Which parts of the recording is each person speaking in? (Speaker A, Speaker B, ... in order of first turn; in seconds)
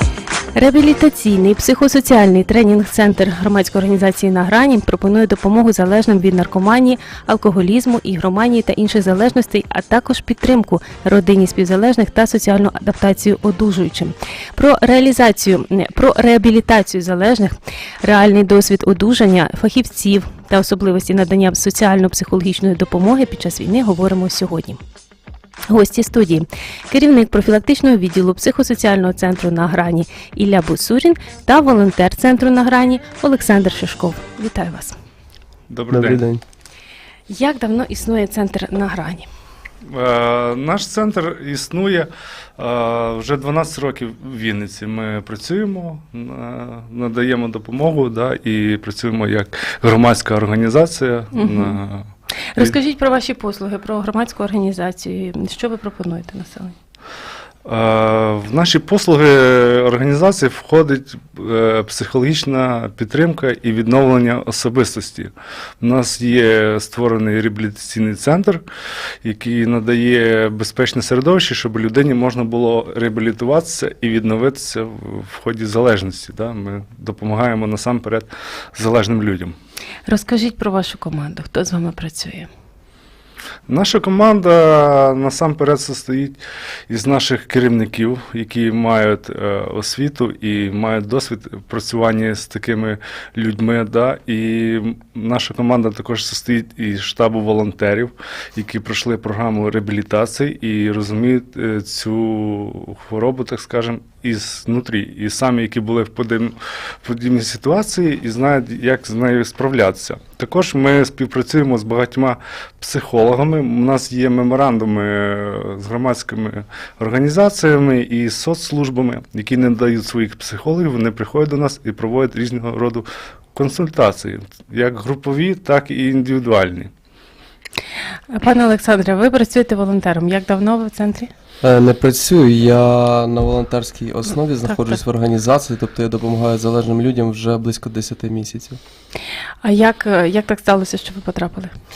Speaker A: 0.5-24.8, 25.7-34.9, 37.3-39.3, 51.3-51.8, 52.5-56.8, 80.1-82.5, 128.3-131.3, 139.6-141.7
Speaker B: 35.7-36.2, 39.9-52.1, 57.7-68.6, 69.2-79.5, 83.7-86.4, 86.9-126.9
Speaker C: 35.9-36.4, 131.6-138.8